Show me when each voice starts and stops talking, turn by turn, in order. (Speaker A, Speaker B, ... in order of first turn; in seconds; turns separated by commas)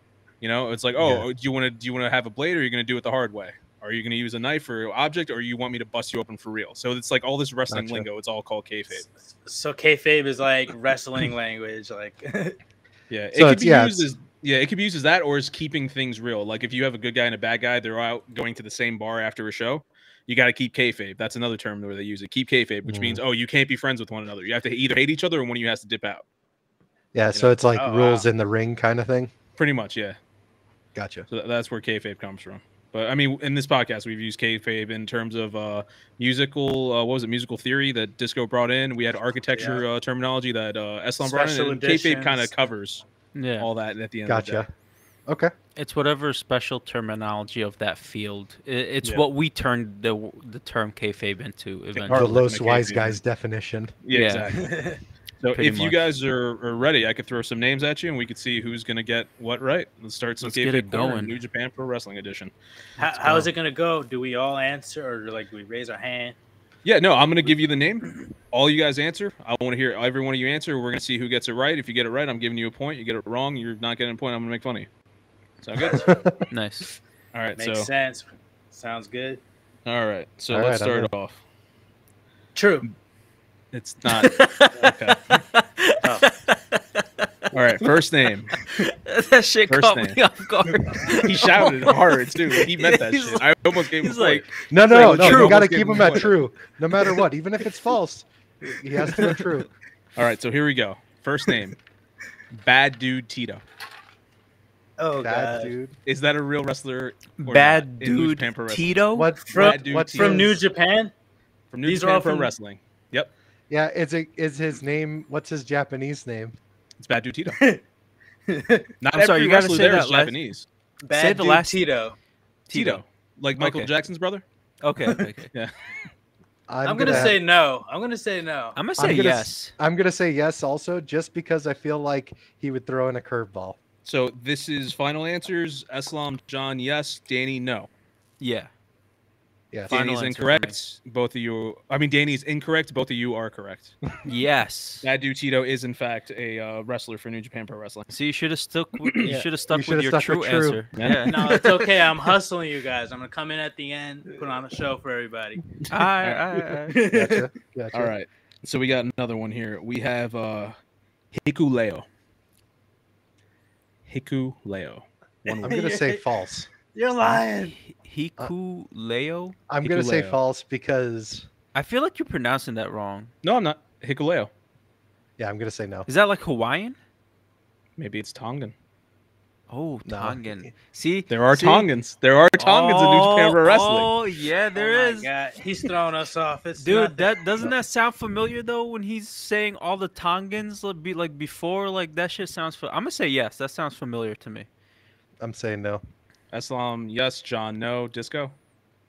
Speaker A: 0.4-9.0, Speaker B: 1.0-1.3, Speaker B: 7.7-8.1, Speaker C: 9.1-12.6, Speaker A: 13.1-26.2, Speaker B: 13.3-14.1, Speaker B: 22.9-23.2, Speaker B: 27.1-29.3, Speaker C: 27.7-28.3, Speaker A: 29.6-30.2, Speaker B: 30.9-31.3, Speaker A: 31.3-43.0, Speaker C: 39.5-39.8, Speaker C: 41.2-42.5, Speaker D: 43.4-43.7, Speaker A: 43.6-44.6, Speaker B: 44.3-44.7, Speaker B: 45.3-45.5, Speaker D: 45.8-52.4, Speaker A: 52.0-53.2, Speaker B: 52.1-53.9, Speaker A: 54.0-54.8, Speaker D: 54.1-54.5, Speaker C: 54.5-55.0, Speaker A: 55.4-63.5, Speaker D: 55.5-56.0, Speaker D: 60.4-61.4, Speaker C: 63.0-66.4, Speaker A: 66.8-74.9, Speaker A: 75.6-76.2, Speaker B: 75.9-76.4, Speaker D: 76.5-76.9, Speaker A: 77.3-77.9, Speaker C: 77.6-79.4, Speaker A: 79.8-81.4, Speaker B: 80.5-81.1, Speaker C: 82.5-82.9, Speaker A: 83.7-85.4, Speaker D: 84.1-87.5, Speaker A: 87.5-88.7, Speaker D: 88.5-95.7, Speaker A: 89.7-90.2, Speaker A: 91.1-96.3, Speaker B: 94.7-99.7, Speaker C: 99.1-99.5, Speaker A: 100.2-101.8, Speaker A: 102.5-103.6, Speaker C: 105.0-105.7, Speaker B: 105.2-106.0, Speaker A: 106.1-109.0, Speaker D: 107.4-109.3, Speaker B: 109.1-110.6, Speaker A: 109.5-110.5, Speaker C: 109.5-111.1, Speaker A: 111.7-113.3, Speaker C: 111.9-112.5, Speaker B: 113.7-116.6, Speaker A: 117.0-117.6, Speaker C: 117.5-117.8, Speaker C: 118.5-118.9, Speaker A: 119.0-120.7, Speaker D: 119.1-120.4, Speaker C: 121.0-122.2, Speaker D: 121.1-121.8, Speaker D: 122.7-123.0, Speaker A: 122.7-124.4, Speaker D: 123.6-123.9, Speaker D: 124.8-125.5, Speaker B: 126.7-127.4, Speaker C: 126.8-128.8, Speaker D: 128.8-129.8, Speaker B: 129.0-133.8, Speaker A: 134.1-137.9, Speaker D: 138.4-138.7, Speaker A: 139.9-144.0, Speaker D: 139.9-140.8, Speaker D: 144.2-145.1, Speaker A: 145.0-148.1, Speaker D: 148.1-151.6, Speaker A: 149.1-149.4, Speaker B: 149.3-150.8, Speaker A: 151.0-151.6, Speaker C: 151.3-155.6, Speaker A: 155.8-156.4, Speaker D: 155.9-157.0, Speaker C: 156.9-157.5, Speaker B: 157.0-158.1, Speaker A: 157.9-160.8, Speaker A: 161.3-162.1, Speaker A: 164.1-165.8, Speaker C: 165.5-166.2, Speaker B: 165.6-166.7, Speaker C: 166.9-167.8, Speaker D: 167.8-169.6, Speaker B: 169.7-171.5, Speaker A: 169.8-170.4, Speaker D: 171.7-173.3, Speaker A: 173.4-174.5, Speaker B: 175.4-176.1, Speaker D: 176.1-177.0, Speaker A: 178.0-178.7, Speaker D: 179.7-181.9, Speaker B: 180.1-180.7, Speaker A: 181.3-184.1, Speaker D: 182.6-185.3, Speaker C: 184.8-187.7, Speaker D: 186.8-194.7, Speaker B: 195.4-196.0, Speaker A: 196.5-198.5